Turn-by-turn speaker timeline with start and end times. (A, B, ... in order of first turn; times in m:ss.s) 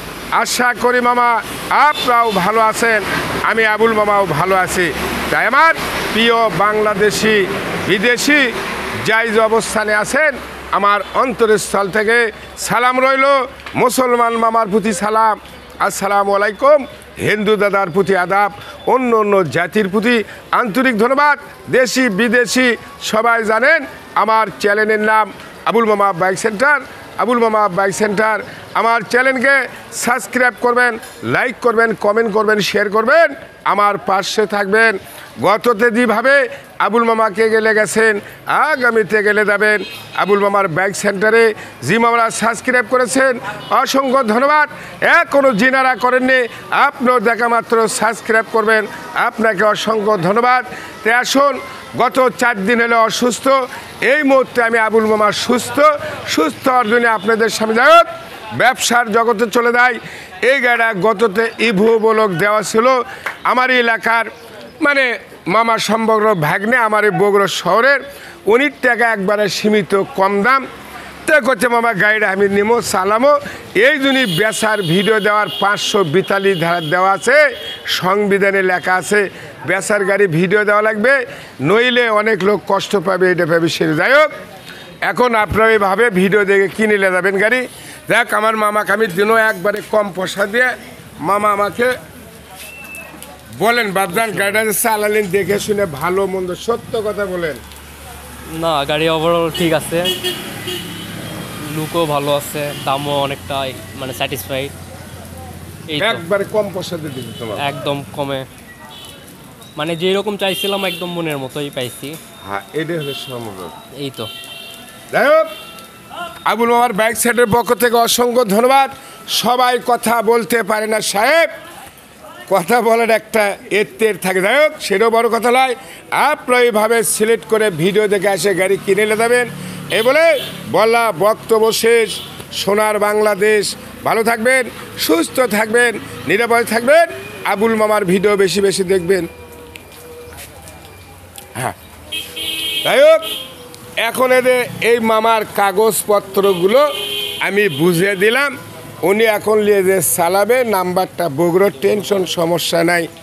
0:00.4-0:08.5 A
0:09.0-1:04.3 A
1:04.8-1:10.6 A
1:11.2-1:24.3 A
1:25.1-1:31.9 A
1:33.6-1:37.6 A
1:34.1-1:34.6 B
1:38.6-1:40.1 B
1:41.6-1:44.7 B
1:45.9-1:46.2 B
1:46.0-1:47.6 A
1:47.6-1:48.5 B
1:49.8-1:52.2 B
1:52.4-1:53.7 A
1:54.0-1:54.3 B
1:55.1-1:55.5 A
1:56.4-2:01.5 A
2:02.5-2:19.3 A
2:22.8-2:23.2 A
2:24.0-2:26.9 A
2:27.4-2:33.1 A